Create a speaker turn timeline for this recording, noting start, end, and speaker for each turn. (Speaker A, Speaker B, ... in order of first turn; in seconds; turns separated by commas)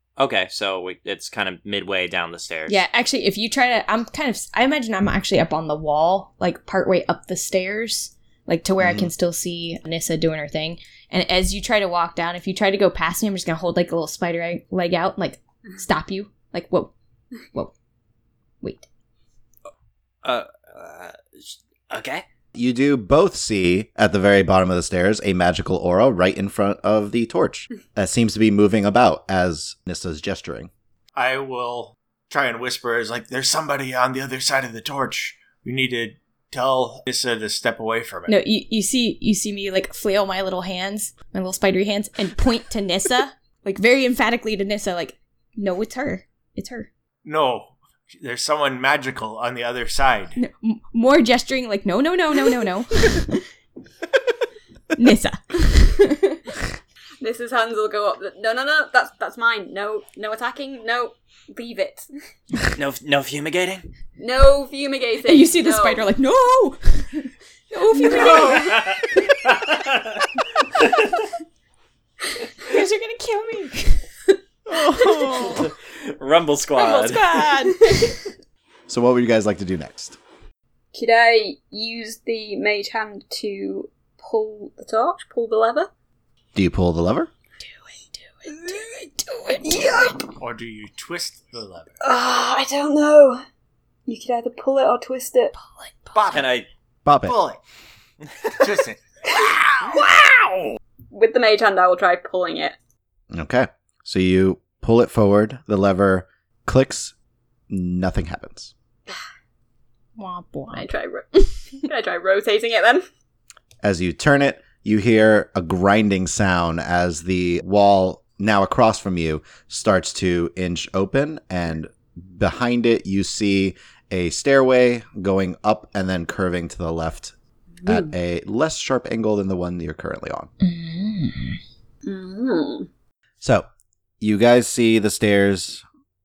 Speaker A: 0.2-2.8, Speaker B: 2.7-16.9, Speaker C: 8.8-9.1, Speaker B: 18.6-18.9, Speaker A: 20.2-22.2, Speaker C: 22.5-30.7, Speaker D: 31.1-38.4, Speaker B: 38.3-46.9, Speaker D: 47.2-50.4, Speaker B: 50.4-53.5, Speaker B: 54.9-56.6, Speaker E: 57.2-62.1, Speaker A: 62.7-63.9, Speaker E: 64.2-66.1, Speaker B: 65.2-69.4, Speaker E: 67.9-68.8, Speaker A: 68.4-70.2, Speaker A: 70.8-71.1, Speaker B: 72.6-75.7, Speaker C: 74.7-75.6, Speaker A: 75.3-77.5, Speaker B: 76.8-78.2, Speaker C: 78.9-80.2, Speaker E: 80.9-85.9, Speaker C: 86.5-87.3, Speaker B: 87.6-90.0, Speaker E: 88.5-88.9, Speaker E: 89.6-90.3, Speaker D: 90.4-92.0, Speaker E: 92.0-93.4, Speaker E: 94.1-95.5, Speaker B: 95.5-96.4, Speaker D: 96.1-96.5, Speaker A: 96.3-96.7, Speaker C: 97.0-97.4, Speaker D: 97.2-97.6, Speaker A: 98.4-98.7, Speaker D: 98.6-100.0, Speaker A: 99.8-100.8, Speaker E: 101.1-102.8, Speaker C: 103.3-107.1, Speaker C: 107.7-108.7, Speaker B: 110.2-111.8, Speaker E: 110.7-113.1, Speaker C: 113.8-127.3, Speaker E: 127.8-128.1, Speaker C: 127.8-130.5, Speaker B: 130.6-131.6, Speaker E: 132.0-132.9, Speaker C: 133.4-133.7, Speaker C: 134.2-135.8